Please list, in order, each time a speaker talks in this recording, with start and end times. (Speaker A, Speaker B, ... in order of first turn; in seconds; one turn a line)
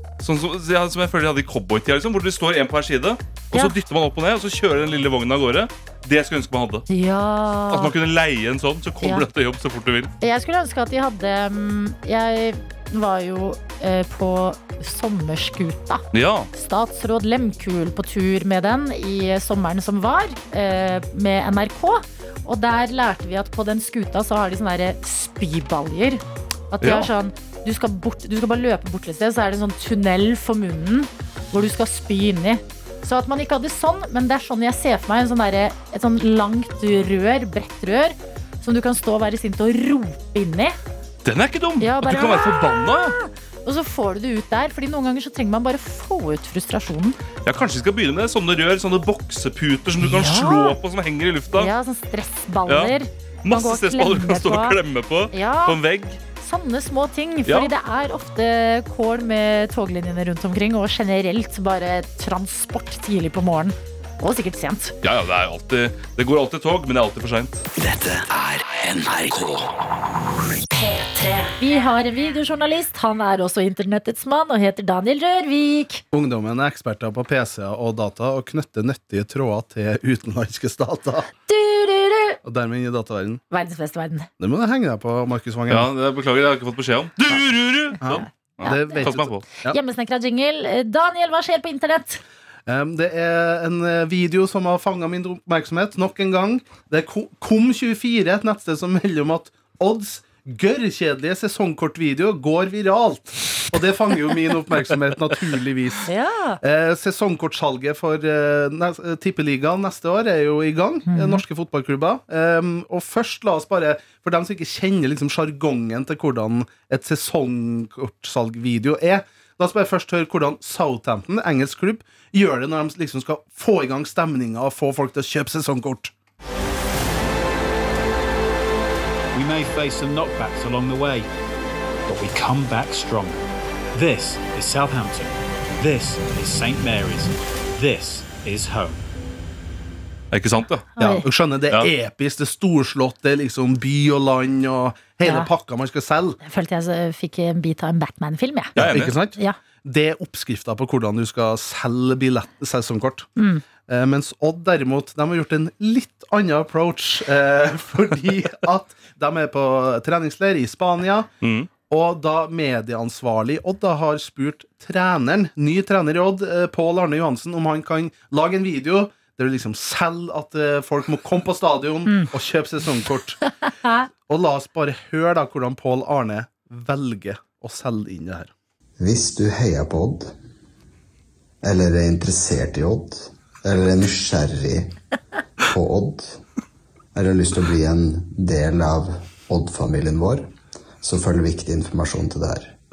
Speaker A: 0.2-6.8
Speaker B: 6.9-7.9
Speaker A: 7.7-10.1
Speaker B: 10.2-40.8
Speaker A: 16.1-16.5
Speaker A: 26.8-27.1
Speaker A: 41.2-43.1
Speaker B: 41.8-47.2
Speaker A: 47.4-51.7
Speaker B: 50.0-50.8
Speaker B: 51.5-54.8
Speaker A: 52.7-52.9
Speaker A: 53.4-56.2
Speaker B: 55.3-55.8
Speaker B: 56.4-65.0
Speaker A: 57.5-57.7
Speaker A: 65.0-67.6
Speaker C: 67.8-69.8
Speaker B: 70.7-76.0
Speaker D: 76.1-81.3
Speaker B: 81.5-82.4
Speaker D: 82.4-83.4
Speaker B: 83.5-84.3
Speaker D: 84.4-85.9
Speaker A: 85.7-89.5
Speaker D: 88.0-89.8
Speaker B: 88.6-89.1
Speaker B: 89.6-92.2
Speaker D: 92.7-106.1
Speaker B: 106.0-106.6
Speaker D: 106.6-126.1
Speaker B: 111.1-111.4
Speaker E: 129.3-131.3
Speaker E: 132.1-133.4
Speaker E: 133.9-139.0
Speaker A: 140.3-141.0
Speaker B: 141.0-141.2
Speaker D: 141.0-146.4
Speaker B: 145.2-145.5
Speaker B: 146.4-148.8
Speaker A: 148.8-149.2
Speaker D: 148.8-153.3
Speaker B: 153.4-153.6
Speaker D: 153.9-161.3
Speaker A: 161.4-161.7
Speaker D: 161.8-173.4
Speaker D: 174.3-178.5
Speaker F: 179.0-180.3
Speaker F: 181.6-184.9
Speaker F: 185.7-186.4
Speaker F: 187.1-190.5
Speaker F: 191.0-192.7